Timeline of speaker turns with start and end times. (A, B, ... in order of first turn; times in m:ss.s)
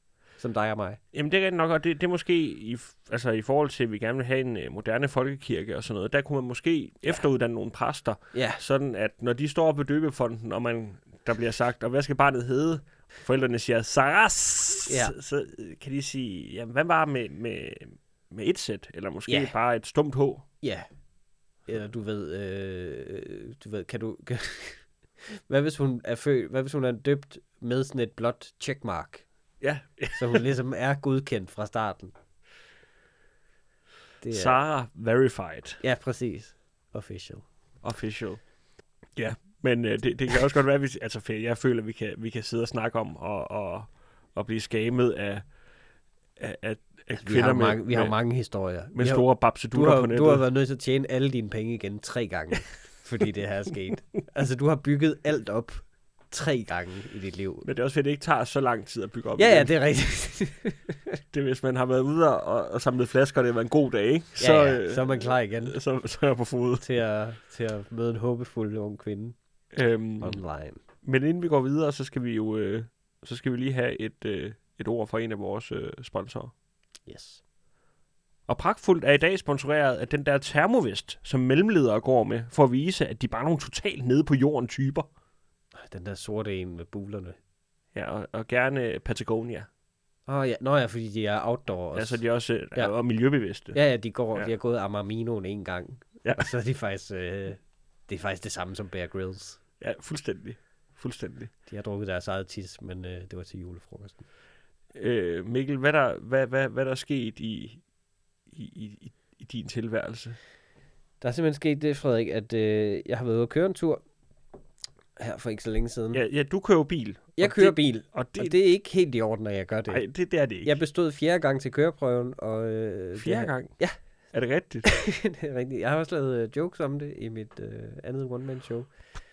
0:00.4-0:01.0 A
0:01.1-0:20.4 B
0:08.3-0:08.6 A
0:14.9-0:15.1 A
0:19.3-0:19.5 A
0:20.6-0:20.9 A
0:21.6-0:29.2 A
0:29.6-0:30.4 B
0:30.2-0:32.1 A
0:34.2-0:34.6 A
0:34.3-0:35.8 B
0:35.8-0:37.4 A
0:37.8-0:38.5 B
0:39.0-0:45.6 B
0:46.4-0:50.4 B
0:47.2-0:57.7 A
0:57.6-0:59.7 B
0:59.4-1:01.2 A
1:01.3-1:06.9 B
1:04.4-1:05.8 A
1:06.8-1:09.4 A
1:09.7-1:10.4 B
1:10.2-1:10.8 A
1:11.0-1:16.5 B
1:17.0-1:17.4 A
1:18.5-1:25.1 B
1:25.7-1:27.4 A
1:27.9-1:29.7 B
1:30.3-1:32.9 A
1:31.9-1:33.8 B
1:33.7-1:39.6 A
1:36.2-1:36.5 B
1:39.8-1:41.5 B
1:41.6-1:44.2 A
1:44.9-1:47.8 B
1:48.5-1:50.4 B
1:51.2-1:54.0 A
1:55.2-1:56.2 A
1:56.1-1:58.6 B
1:57.4-2:00.1 A
1:59.9-2:00.7 B
2:00.6-2:04.0 A
2:03.2-2:03.8 B
2:04.3-2:05.0 B
2:04.8-2:08.9 A